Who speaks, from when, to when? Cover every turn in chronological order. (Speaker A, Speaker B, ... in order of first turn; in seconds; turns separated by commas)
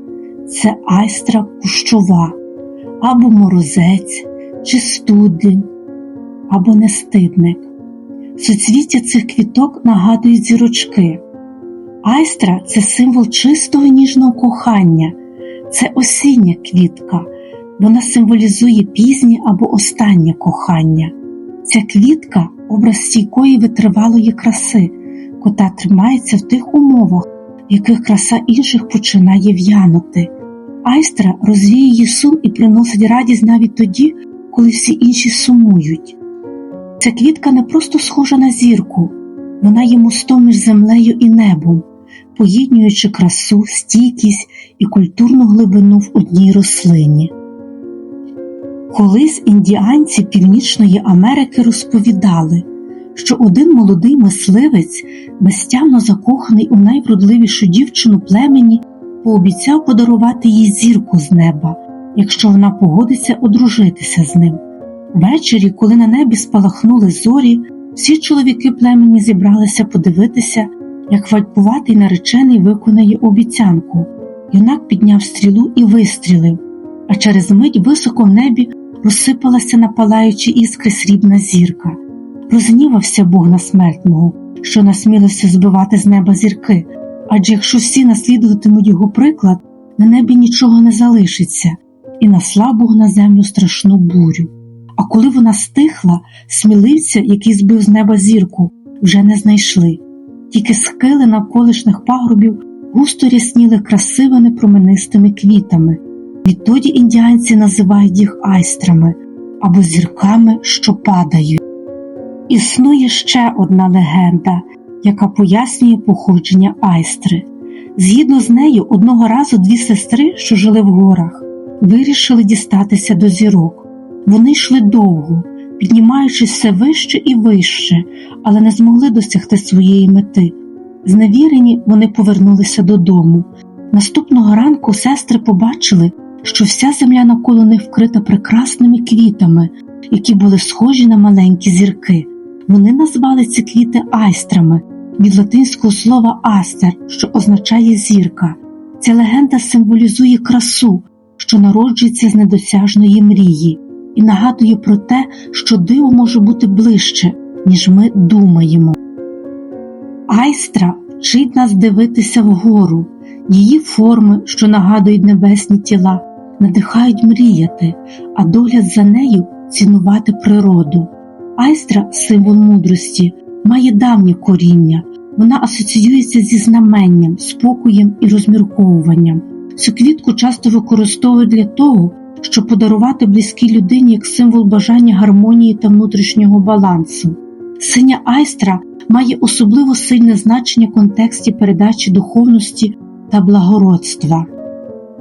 Speaker A: 0.5-2.4, Speaker A: 3.0-5.7, Speaker A: 6.5-7.7, Speaker A: 8.4-11.2, Speaker A: 12.0-15.2, Speaker A: 15.7-30.3, Speaker A: 30.8-36.2, Speaker A: 37.0-47.3, Speaker A: 48.9-64.6, Speaker A: 65.1-111.6, Speaker A: 112.5-159.0, Speaker A: 160.3-194.5